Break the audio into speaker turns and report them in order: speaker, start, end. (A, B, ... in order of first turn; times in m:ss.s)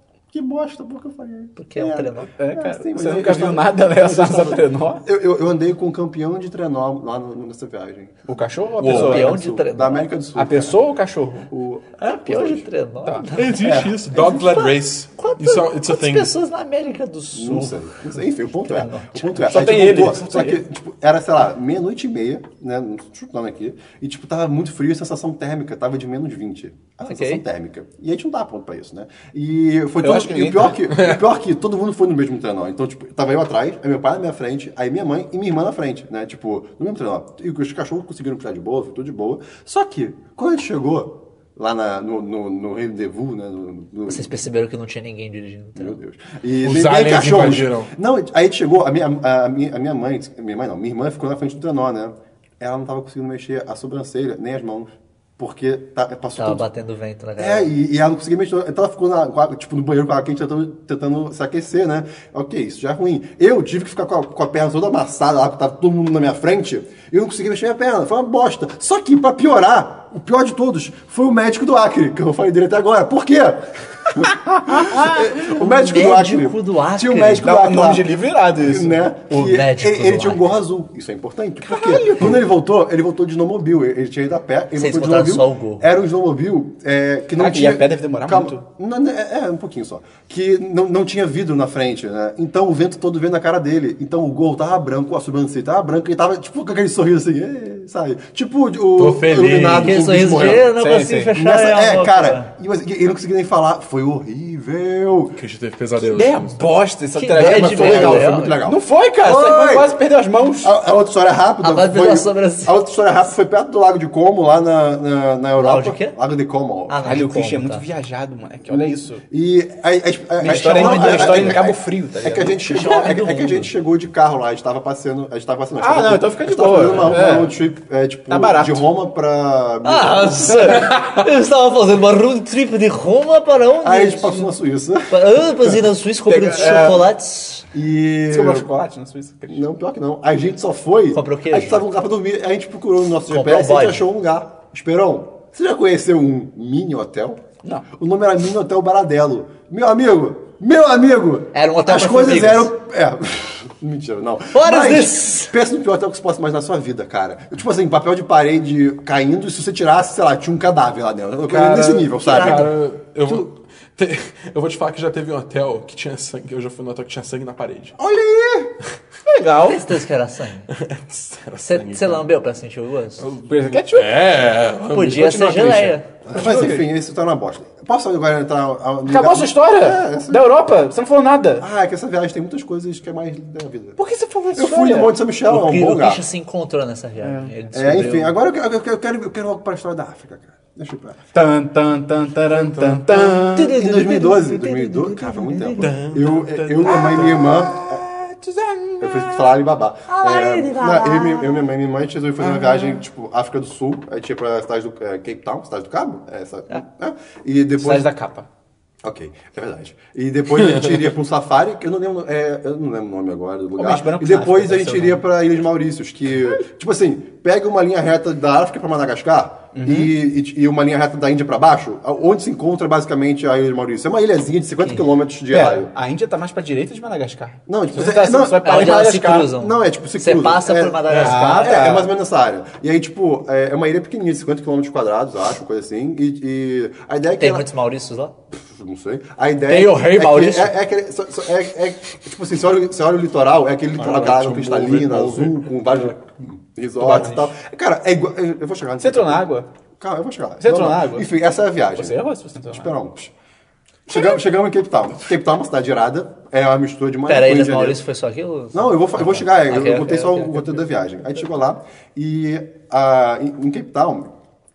0:00.3-0:08.2 A
0:01.6-0:02.3 B
0:02.4-0:05.0 C
0:08.3-0:09.4 C
0:08.8-0:09.3 D
0:08.9-0:10.1 B
0:08.9-0:10.8 A
0:10.4-0:11.5 C
0:11.5-0:12.7 A
0:12.0-0:17.9 B
0:13.0-0:13.3 C
0:13.4-0:16.3 D
0:13.6-0:14.5 A
0:17.3-0:44.3 A
0:18.6-0:19.8 B
0:19.4-0:20.6 C
0:27.0-0:27.4 B
0:30.0-0:30.8 C
0:44.1-0:46.0 B
0:45.8-0:56.7 A
0:46.6-0:47.9 D
0:56.4-0:57.7 B
0:57.4-1:40.7 A
1:14.8-1:15.3 C
1:15.6-1:17.5 B
1:17.4-1:19.1 C
1:19.3-1:20.6 B
1:21.7-1:22.4 C
1:24.8-1:25.8 B
1:27.4-1:28.6 C
1:39.0-1:40.1 D
1:39.8-1:42.5 B
1:40.6-1:41.4 C
1:41.3-1:45.4 A
1:45.4-1:46.6 D
1:46.0-1:50.7 C
1:47.2-1:48.6 B
1:47.4-1:50.0 A
1:50.6-1:57.2 A
1:51.6-1:52.7 B
1:55.6-1:56.2 B
1:56.9-1:57.8 B
1:57.0-1:59.2 C
1:58.7-2:10.9 A
2:00.4-2:03.1 C
2:00.4-2:01.6 B
2:02.6-2:03.7 B
2:05.8-2:07.6 C
2:08.3-2:08.8 C
2:09.8-2:14.5 B
2:13.8-2:15.8 A
2:15.1-2:17.7 B
2:16.3-2:17.1 C
2:17.7-2:18.9 A
2:18.3-2:19.6 C
2:19.5-2:43.5 A
2:21.1-2:21.8 B
2:23.3-2:24.0 B
2:31.5-2:32.7 B
2:34.5-2:35.5 B
2:41.5-2:48.0 D
2:42.2-2:42.7 B
2:48.0-2:48.8 A
2:49.3-2:50.0 C
2:49.6-2:50.7 B
2:50.7-2:52.4 D
2:51.6-2:53.3 B
2:53.2-2:55.4 D
2:53.4-2:54.2 C
2:54.9-2:56.1 B
2:55.1-2:56.8 C
2:56.2-3:00.5 A
2:59.1-3:01.7 C
3:01.6-3:04.0 A
3:04.0-3:05.2 C
3:04.5-3:06.2 A
3:05.5-3:08.4 B
3:07.2-3:07.5 C
3:07.7-3:11.2 A
3:11.3-3:13.8 C
3:12.5-3:13.1 D
3:13.2-3:18.1 A
3:13.6-3:15.9 B
3:15.8-3:17.7 D
3:17.0-3:19.4 C
3:19.0-3:28.1 A
3:20.1-3:21.7 B
3:22.4-3:23.0 D
3:27.8-3:28.5 C
3:29.0-3:45.9 A
3:33.8-3:35.2 C
3:39.7-3:40.1 C
3:45.5-3:49.5 C
3:47.7-3:57.7 A
3:48.6-3:52.0 B
3:51.1-3:51.4 D
3:51.2-3:52.1 C
3:57.4-3:58.3 B
3:58.5-4:09.5 A
3:59.7-4:00.7 B
3:59.9-4:00.6 C
4:04.0-4:06.1 D
4:07.0-4:07.5 C
4:09.0-4:09.7 C
4:10.0-4:13.3 A
4:10.6-4:11.3 C
4:12.0-4:12.9 C
4:14.1-4:18.0 A
4:17.3-4:20.5 B
4:18.7-4:24.3 A